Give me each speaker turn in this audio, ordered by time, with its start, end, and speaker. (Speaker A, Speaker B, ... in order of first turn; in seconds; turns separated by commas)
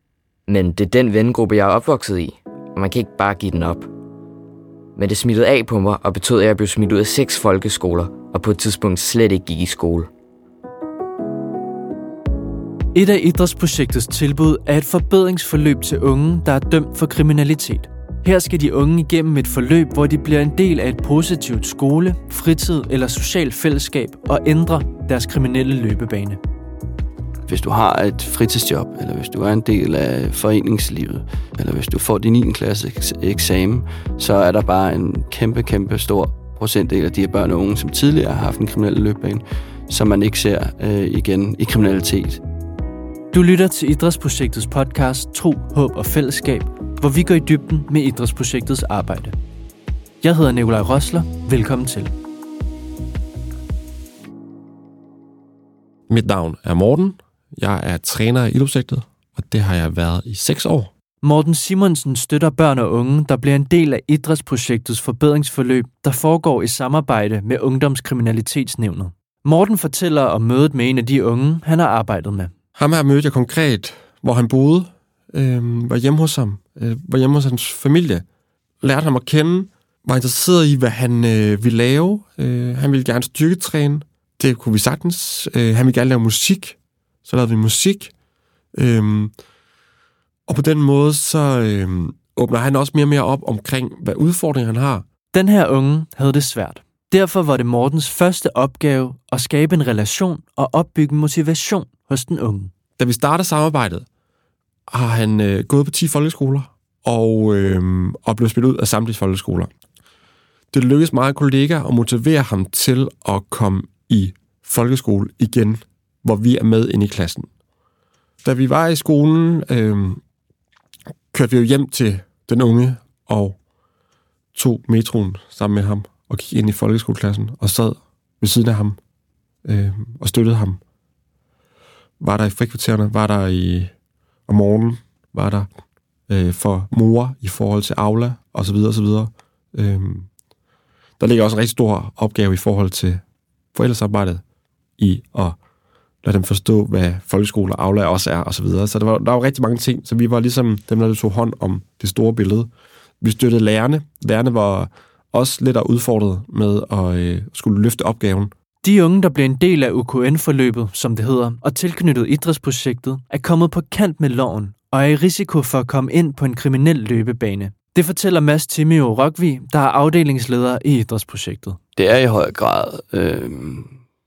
Speaker A: 0.5-3.9, Speaker A: 5.0-10.1, Speaker B: 12.9-26.4, Speaker C: 27.5-42.4, Speaker B: 43.3-49.4, Speaker B: 50.2-52.1, Speaker D: 56.1-60.9, Speaker B: 61.2-72.5, Speaker D: 72.8-78.2, Speaker D: 78.8-88.1, Speaker D: 88.7-89.3, Speaker D: 90.5-95.0, Speaker B: 95.3-102.7, Speaker D: 103.0-104.0, Speaker D: 104.9-109.7, Speaker D: 110.7-117.5, Speaker D: 118.4-120.2, Speaker D: 121.3-123.5, Speaker D: 124.5-129.0, Speaker D: 129.6-130.8, Speaker D: 132.2-133.9, Speaker D: 134.5-135.7, Speaker D: 136.3-140.3, Speaker D: 141.2-143.2, Speaker D: 143.7-144.4, Speaker D: 145.0-145.6, Speaker D: 146.2-152.7, Speaker D: 153.2-158.5, Speaker B: 158.8-171.8, Speaker C: 171.9-173.9